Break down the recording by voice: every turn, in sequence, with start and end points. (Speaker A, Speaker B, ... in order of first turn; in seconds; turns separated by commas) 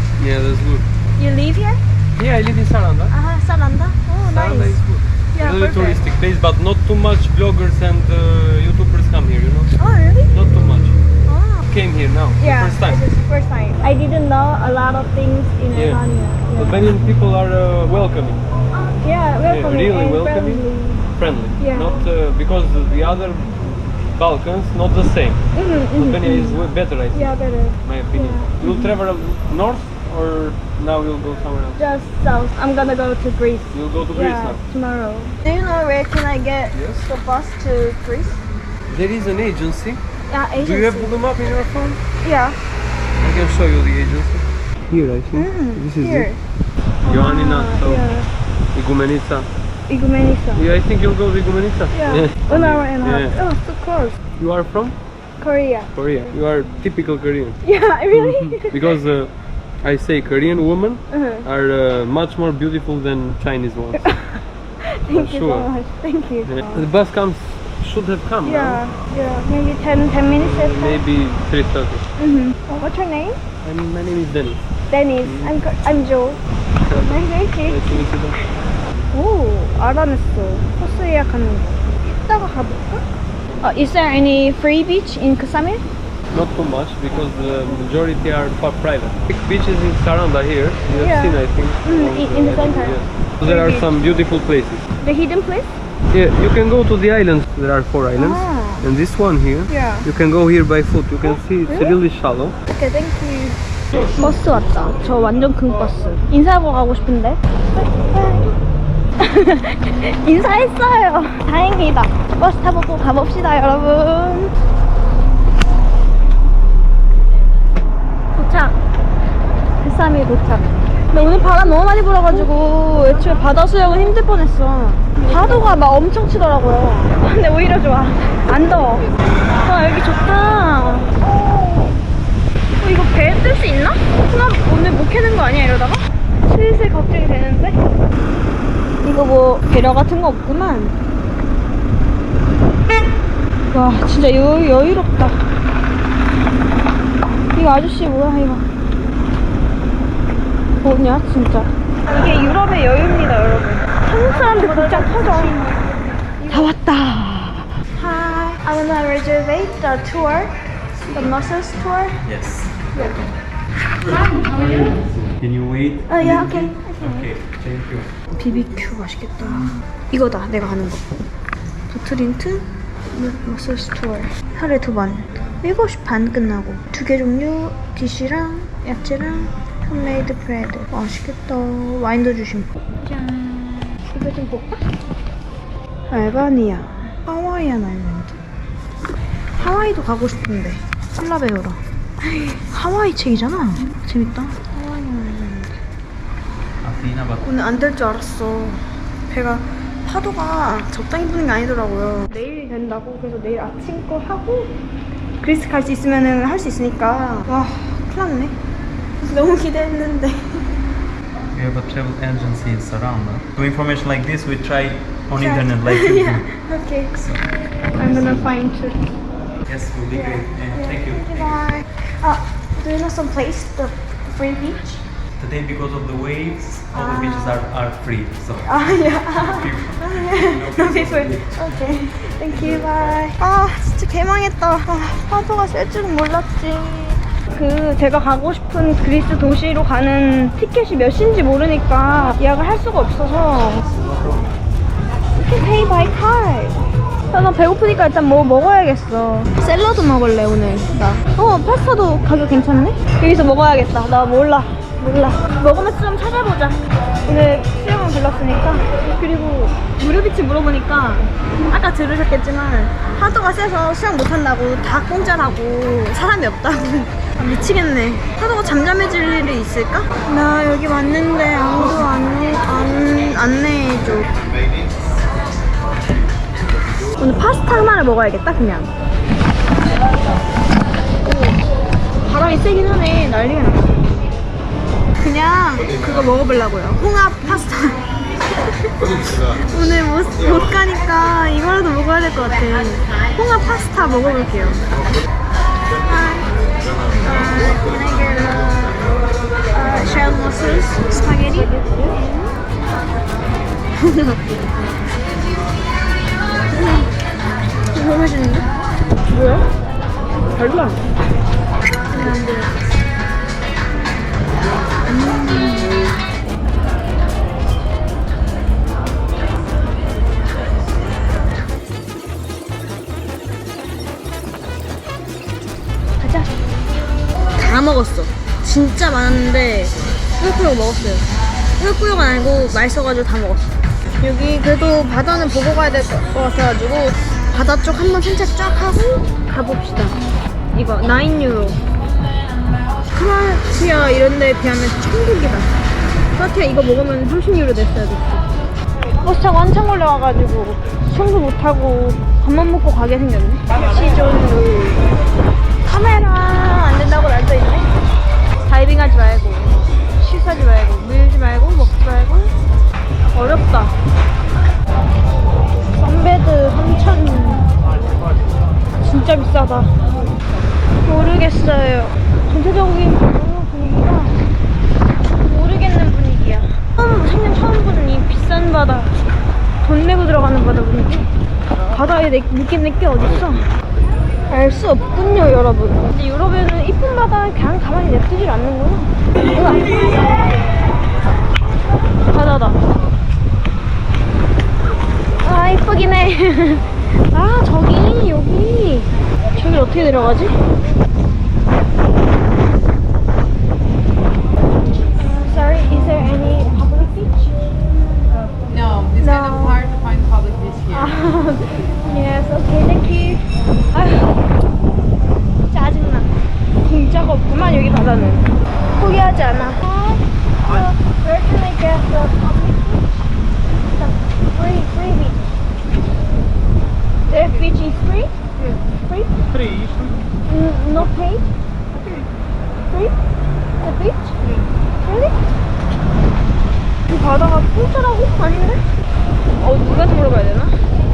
Speaker A: 0.2-0.9, Speaker B: 1.2-1.8, Speaker A: 2.1-3.1, Speaker B: 3.1-4.8, Speaker A: 4.2-11.0, Speaker B: 5.3-6.0, Speaker B: 9.8-10.3, Speaker B: 11.3-11.6, Speaker A: 11.7-13.1, Speaker B: 12.4-16.9, Speaker A: 15.7-16.0, Speaker A: 16.6-18.4, Speaker B: 19.0-21.0, Speaker A: 19.4-31.8, Speaker B: 21.6-22.0, Speaker B: 25.5-29.0, Speaker B: 31.8-38.4, Speaker A: 33.7-34.6, Speaker A: 36.7-37.1, Speaker A: 38.9-40.0, Speaker B: 40.3-41.2, Speaker A: 40.6-42.0, Speaker B: 42.2-42.6, Speaker A: 43.2-46.3, Speaker B: 45.3-46.4, Speaker A: 47.0-48.1, Speaker B: 47.1-48.3, Speaker A: 48.7-49.5, Speaker B: 49.9-50.6, Speaker A: 50.5-53.4, Speaker B: 51.9-54.2, Speaker A: 54.4-55.0, Speaker B: 55.4-55.9, Speaker A: 55.9-57.6, Speaker B: 57.6-58.8, Speaker A: 58.1-64.2, Speaker B: 61.1-61.5, Speaker B: 64.0-66.8, Speaker A: 65.1-65.7, Speaker A: 66.5-68.8, Speaker B: 68.4-71.0, Speaker A: 70.1-72.0, Speaker B: 72.2-73.4, Speaker A: 73.6-74.7, Speaker B: 74.9-77.8, Speaker A: 75.2-75.7, Speaker A: 76.8-78.4, Speaker B: 79.1-83.0, Speaker B: 83.6-85.8, Speaker A: 86.3-94.8, Speaker B: 90.9-93.9, Speaker B: 95.0-95.7, Speaker A: 96.1-102.6, Speaker B: 98.1-98.9, Speaker B: 99.7-100.1, Speaker B: 101.7-102.0, Speaker B: 102.7-108.5, Speaker B: 109.2-114.5, Speaker B: 118.4-118.8, Speaker B: 119.8-129.1, Speaker B: 129.6-131.9, Speaker B: 132.8-137.8, Speaker B: 139.0-141.0, Speaker B: 143.7-145.4, Speaker B: 147.5-148.6, Speaker B: 150.8-155.6, Speaker B: 156.4-160.5, Speaker B: 161.1-162.2, Speaker C: 162.2-162.9, Speaker B: 162.9-163.3, Speaker C: 164.0-168.1, Speaker B: 166.1-167.3, Speaker B: 168.4-171.1, Speaker B: 171.9-184.8, Speaker B: 186.1-188.4, Speaker B: 189.6-195.7, Speaker C: 196.8-197.5, Speaker B: 197.4-204.8, Speaker B: 205.4-208.6, Speaker B: 209.2-210.7, Speaker C: 211.5-218.6, Speaker B: 215.4-217.1, Speaker B: 218.0-219.1, Speaker C: 219.7-221.7, Speaker B: 220.1-225.0, Speaker C: 225.4-231.6, Speaker B: 226.9-227.6, Speaker B: 228.7-243.9, Speaker B: 245.3-246.8, Speaker B: 247.3-274.3, Speaker B: 277.2-278.9, Speaker B: 281.2-281.6, Speaker B: 282.2-284.0, Speaker B: 285.2-288.0, Speaker B: 289.6-294.8, Speaker B: 296.1-296.5, Speaker B: 297.2-299.1, Speaker B: 299.7-302.5, Speaker B: 304.0-304.4, Speaker B: 306.7-307.1, Speaker B: 307.9-308.7, Speaker B: 309.3-309.7, Speaker B: 310.6-311.1, Speaker B: 312.1-312.8, Speaker B: 315.1-316.0, Speaker B: 326.2-326.5, Speaker B: 327.6-331.3, Speaker B: 331.8-333.6, Speaker B: 334.2-340.2, Speaker B: 340.7-341.8, Speaker B: 343.1-345.7, Speaker B: 346.3-348.4, Speaker B: 349.2-355.0, Speaker B: 355.9-357.9, Speaker B: 358.7-362.5, Speaker B: 363.3-363.9, Speaker B: 366.0-367.7, Speaker B: 369.0-369.9, Speaker B: 371.0-374.4, Speaker B: 375.4-379.2, Speaker B: 379.8-381.3, Speaker B: 381.9-383.7, Speaker B: 384.5-390.3, Speaker B: 392.3-392.9, Speaker B: 395.4-400.6, Speaker B: 405.2-407.6, Speaker B: 409.1-409.9, Speaker B: 410.9-414.4, Speaker B: 415.7-416.3, Speaker B: 416.8-423.0, Speaker B: 424.0-425.4, Speaker B: 427.3-428.3, Speaker B: 429.1-429.3, Speaker A: 429.5-430.2, Speaker B: 430.5-431.5, Speaker B: 433.8-434.3, Speaker B: 435.0-435.4, Speaker B: 437.1-438.8, Speaker B: 439.6-440.8